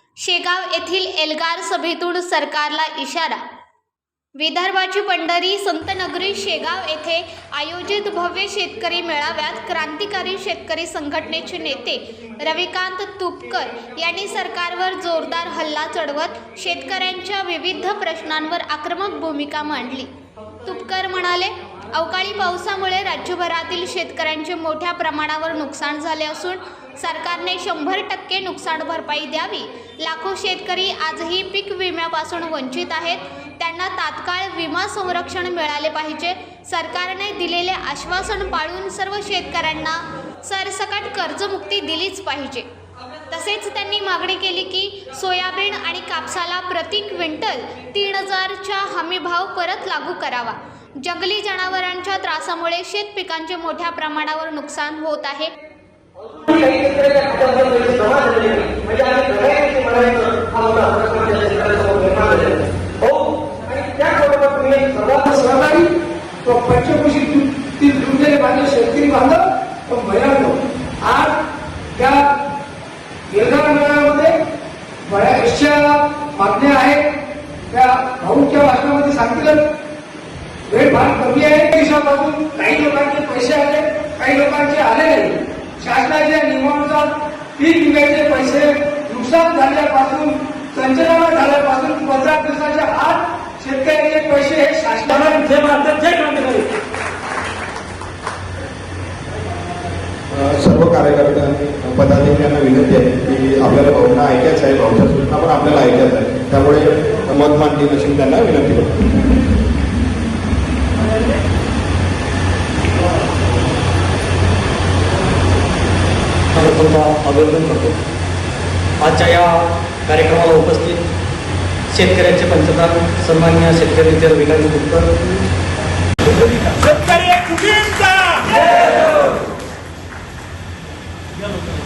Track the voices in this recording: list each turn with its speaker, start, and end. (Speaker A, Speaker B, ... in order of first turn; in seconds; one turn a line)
Speaker A: 0.2-3.4
Speaker A: 4.4-20.1
Speaker A: 20.6-42.7
Speaker A: 43.3-55.5
Speaker B: 56.4-63.3
Speaker B: 63.9-65.1
Speaker C: 65.0-65.9
Speaker C: 66.4-71.4
Speaker C: 71.9-72.2
Speaker C: 73.3-74.4
Speaker C: 75.1-77.0
Speaker C: 77.7-79.6
Speaker C: 80.7-95.5
Speaker D: 95.3-96.7
Speaker E: 100.3-109.2
Speaker D: 116.6-118.0
Speaker D: 119.0-121.0
Speaker D: 121.9-125.3
Speaker F: 126.7-128.7